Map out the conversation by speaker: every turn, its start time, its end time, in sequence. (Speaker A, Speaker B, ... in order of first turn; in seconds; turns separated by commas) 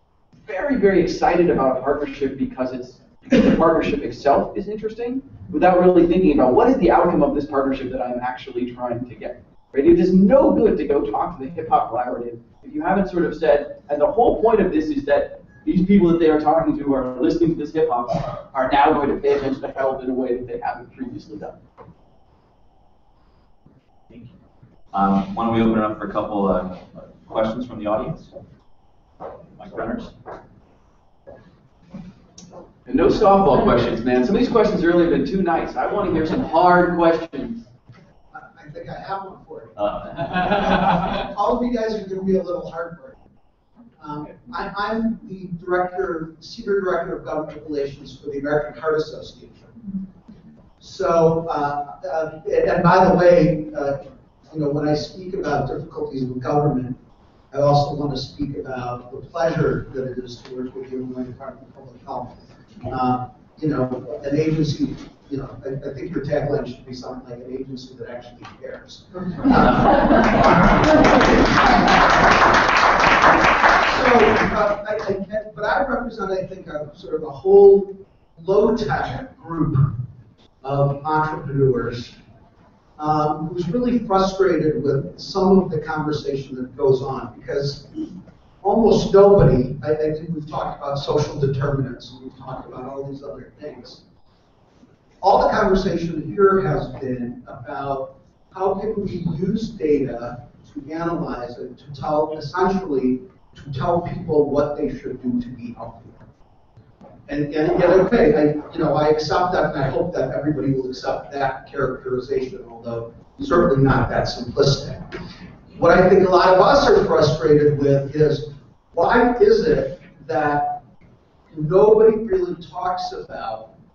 Speaker A: 0.4-21.6, Speaker B: 24.9-28.3, Speaker B: 29.6-30.1, Speaker A: 32.9-37.6, Speaker C: 38.3-43.1, Speaker B: 39.8-40.8, Speaker C: 44.0-50.0, Speaker C: 50.8-57.0, Speaker C: 57.5-72.0, Speaker C: 73.9-80.0, Speaker C: 80.6-82.2, Speaker C: 83.0-87.9, Speaker C: 88.6-94.0, Speaker C: 95.2-106.2, Speaker C: 107.3-115.2, Speaker C: 115.7-120.8, Speaker C: 121.5-123.7